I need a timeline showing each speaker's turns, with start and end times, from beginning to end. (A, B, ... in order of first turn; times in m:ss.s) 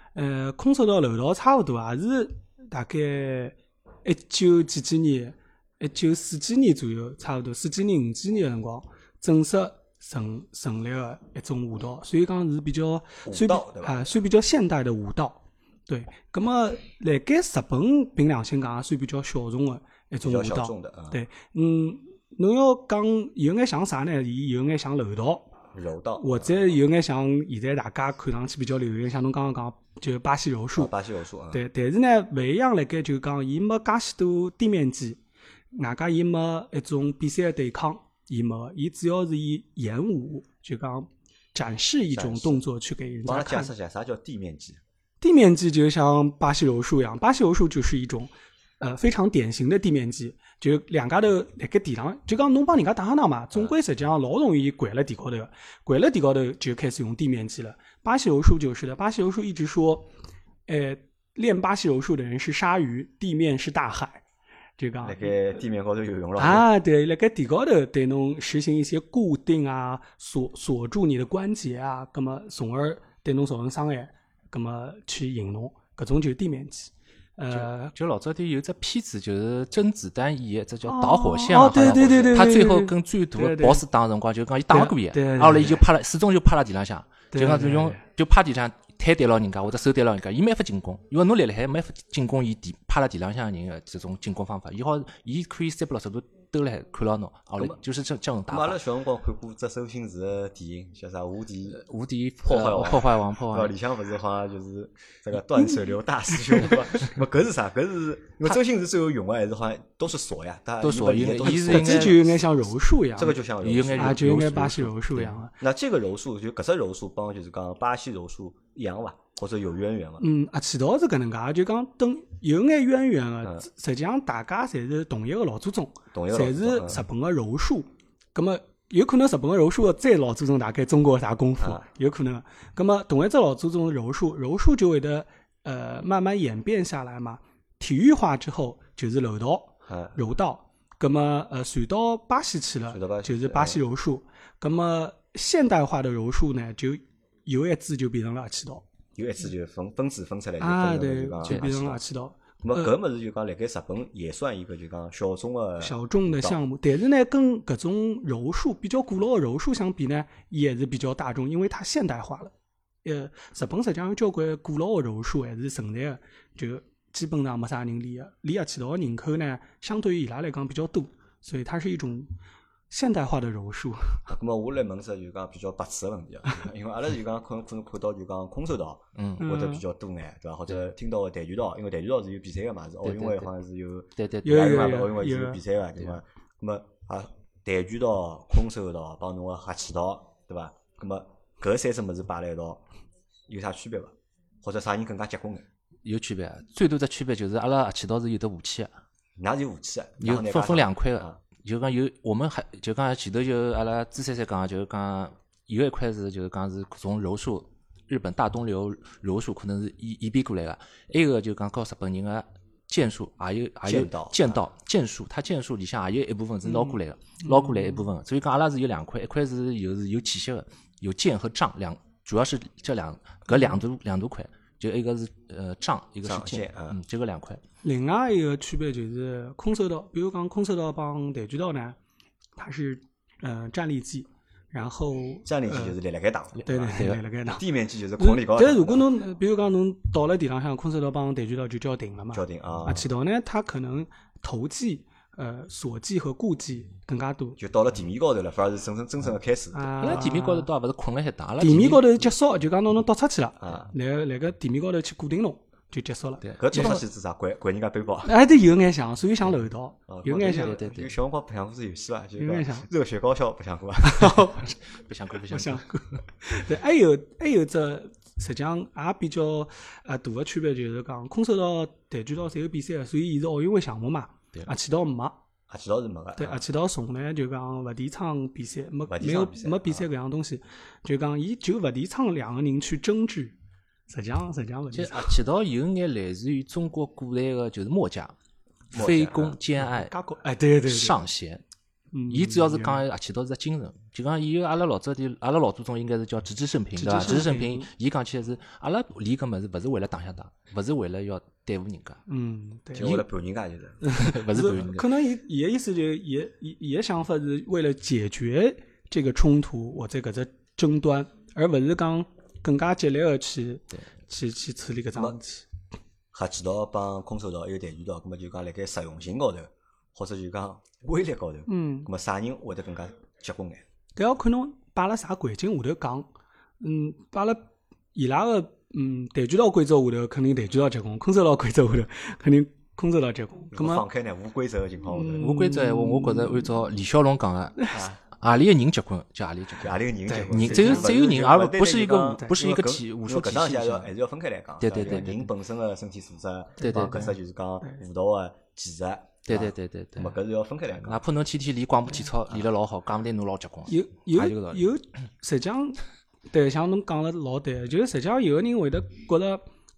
0:00.1-0:25.5 A
0:13.2-0:14.1 B
0:20.2-0:21.2 B
0:25.7-0:26.6 B
0:26.2-0:30.9 A
0:30.7-0:31.6 B
0:31.5-0:35.2 A
0:35.7-0:43.7 A
0:42.1-0:42.6 B
0:43.2-0:44.8 B
0:45.2-1:00.1 A
1:00.7-1:04.2 A
1:04.8-1:05.2 A
1:05.0-1:06.7 B
1:06.4-1:17.9 A
1:17.5-1:38.8 C
1:20.8-1:23.8 A
1:24.7-1:25.8 A
1:27.3-1:28.0 A
1:38.5-1:41.8 B
1:41.7-1:43.7 C
1:42.4-1:52.4 B
1:50.8-1:52.2 C
1:51.4-1:53.4 A
1:53.2-1:54.2 B
1:53.6-1:55.4 C
1:54.0-1:55.6 A
1:55.6-2:00.3 B
2:00.2-2:28.8 A
2:06.1-2:07.0 B
2:11.6-2:11.8 B
2:19.9-2:20.1 B
2:22.9-2:23.8 B
2:29.2-2:32.0 B
2:30.6-2:32.9 A
2:32.6-2:36.6 B
2:35.8-2:42.5 A
2:43.0-2:52.3 A
2:52.9-2:54.2 A
2:54.3-3:12.8 B
2:59.1-2:59.4 C
2:59.4-2:59.8 A
3:03.0-3:03.5 C
3:04.2-3:04.7 C
3:04.4-3:05.6 A
3:13.5-3:15.6 B
3:16.0-3:18.9 C
3:19.4-3:21.4 B
3:20.2-3:47.6 C
3:33.8-3:34.6 B
3:36.6-3:38.0 A
3:46.2-3:47.0 B
3:47.8-3:52.0 A
3:52.6-3:56.0 A
3:55.4-3:59.1 B
3:56.7-3:57.6 A
3:56.9-3:57.2 C
3:58.2-4:07.6 A
4:02.3-4:03.1 B
4:07.6-4:10.2 B
4:09.7-4:10.7 A
4:10.0-4:12.3 C
4:11.6-4:17.0 A
4:13.6-4:13.9 B
4:16.6-4:18.3 B
4:18.2-4:20.8 A
4:20.1-4:24.5 B
4:20.5-4:21.1 C
4:22.4-4:22.9 A
4:24.0-4:24.8 A
4:24.9-4:25.9 C
4:25.5-4:35.4 A
4:35.7-4:36.6 B
4:36.4-4:43.5 A
4:39.1-4:40.1 B
4:44.1-4:45.4 A
4:44.9-4:48.3 C
4:48.9-4:49.6 B
4:48.9-4:50.1 C
4:49.8-4:51.2 A
4:50.8-4:51.6 C
4:52.1-4:53.0 A
4:52.3-5:02.2 C
4:57.0-4:57.9 A
5:02.3-5:03.1 A
5:02.9-5:04.0 B
5:03.0-5:03.2 C
5:04.0-5:15.6 A
5:04.0-5:05.1 C
5:16.3-5:23.8 B
5:21.7-5:22.1 A
5:24.2-5:26.3 A
5:26.8-5:34.0 A
5:33.7-5:35.4 B
5:35.1-5:36.7 A
5:35.4-5:39.9 C
5:37.9-5:38.2 B
5:39.8-5:51.2 B
5:40.3-5:41.1 A
5:40.5-5:44.1 C
5:44.8-5:45.5 C
5:46.8-5:48.0 A
5:46.8-5:47.3 C
5:49.5-5:50.3 C
5:51.0-5:54.8 C
5:53.9-5:59.6 A